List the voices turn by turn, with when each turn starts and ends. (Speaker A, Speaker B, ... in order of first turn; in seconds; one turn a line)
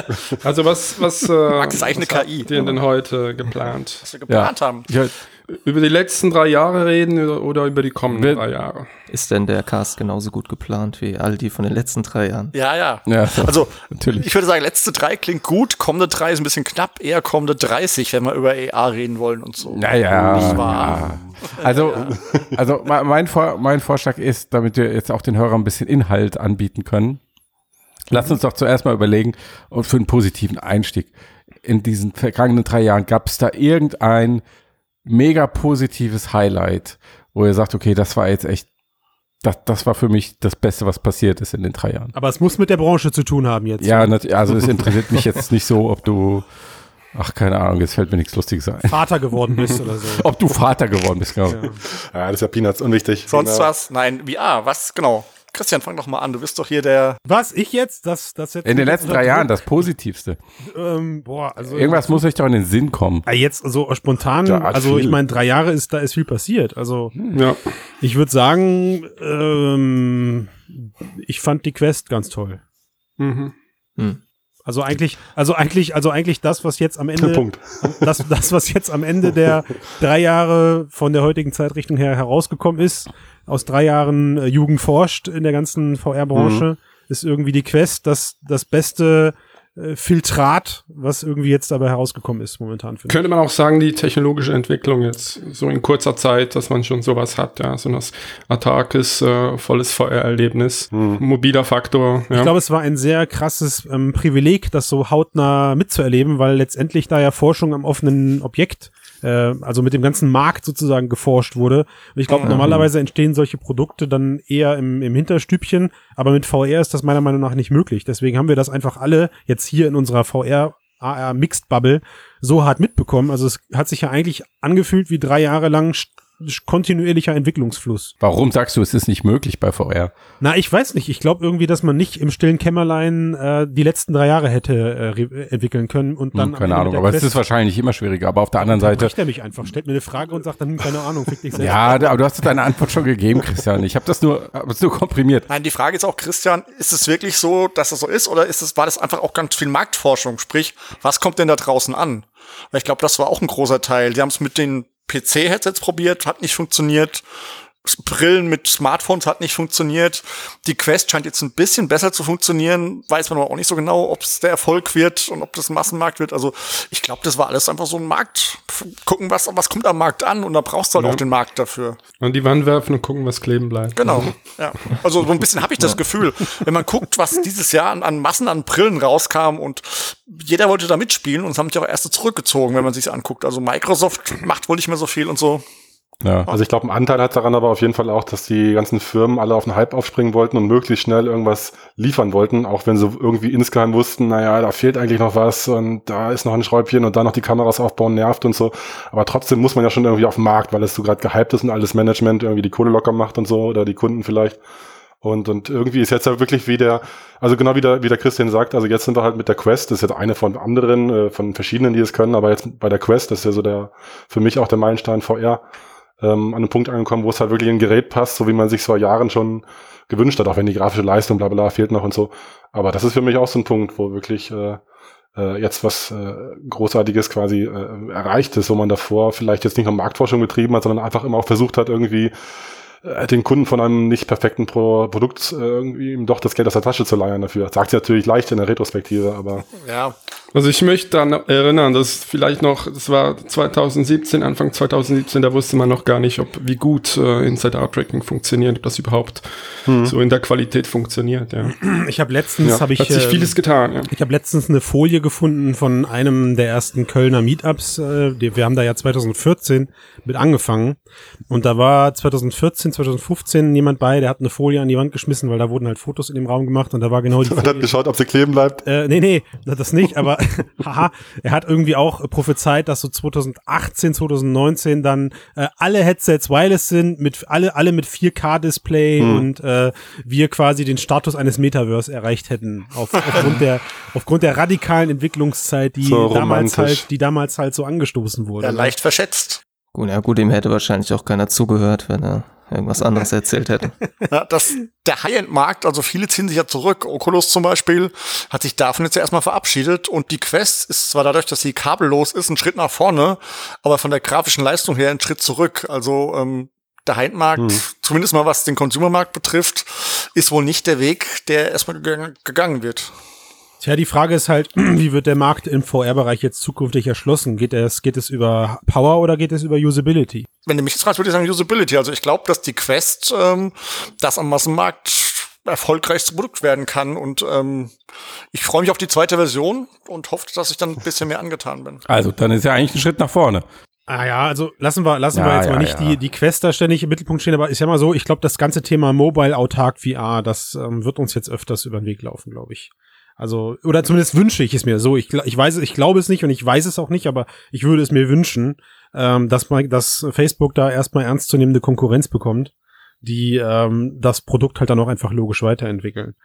Speaker A: 0.4-4.0
Speaker B: 1.5-2.5
Speaker C: 2.5-2.8
Speaker B: 4.0-4.9
Speaker D: 4.3-5.1
Speaker A: 5.5-8.9
Speaker D: 8.1-8.4
Speaker C: 9.1-12.5
Speaker B: 12.5-22.1
Speaker D: 13.1-14.3
Speaker D: 19.7-27.2
Speaker E: 20.2-21.3
Speaker E: 22.0-22.5
Speaker D: 28.1-31.1
Speaker D: 31.6-34.4
Speaker D: 35.0-38.7
Speaker D: 39.4-42.1
Speaker F: 42.1-44.2
Speaker D: 43.8-46.5
Speaker D: 47.1-51.7
Speaker F: 48.9-50.2
Speaker F: 51.5-51.8
Speaker E: 51.9-53.7
Speaker B: 53.3-57.2
Speaker F: 57.2-59.5
Speaker D: 58.6-60.4
Speaker F: 60.6-62.2
Speaker D: 61.6-63.2
Speaker F: 63.2-67.1
Speaker D: 64.4-65.2
Speaker A: 67.3-67.6
Speaker F: 68.0-72.6
Speaker A: 73.2-73.5
Speaker F: 74.7-77.5
Speaker E: 77.2-78.1
Speaker F: 78.0-93.2
Speaker E: 86.3-86.6
Speaker A: 93.1-102.5
Speaker E: 100.9-101.2
Speaker F: 102.3-128.1
Speaker B: 112.3-112.5
Speaker C: 112.5-112.8
Speaker D: 128.2-130.1
Speaker F: 130.4-137.4
Speaker D: 136.3-139.1
Speaker F: 138.6-142.2
Speaker D: 141.5-145.5
Speaker B: 145.5-157.2
Speaker B: 157.8-172.0
Speaker A: 172.2-174.4
Speaker B: 173.9-185.6
Speaker D: 186.2-186.5
Speaker E: 186.5-204.6
Speaker E: 205.2-215.6
Speaker E: 216.2-224.8
Speaker E: 225.3-232.3
Speaker E: 233.0-239.7
Speaker B: 239.7-240.1
Speaker A: 240.5-251.8
Speaker E: 249.8-250.1
Speaker F: 251.6-261.0
Speaker A: 253.0-254.1
Speaker F: 261.5-267.9
Speaker E: 267.4-268.8
Speaker F: 268.8-288.9
Speaker E: 279.2-279.5
Speaker E: 286.0-287.0
Speaker B: 288.6-289.6
Speaker C: 289.9-293.9
Speaker B: 294.3-313.1
Speaker E: 307.6-307.8
Speaker F: 313.8-320.5
Speaker B: 320.6-328.0
Speaker B: 328.5-332.0
Speaker D: 332.1-333.6
Speaker F: 334.1-352.7
Speaker D: 335.3-336.2
Speaker F: 353.2-356.3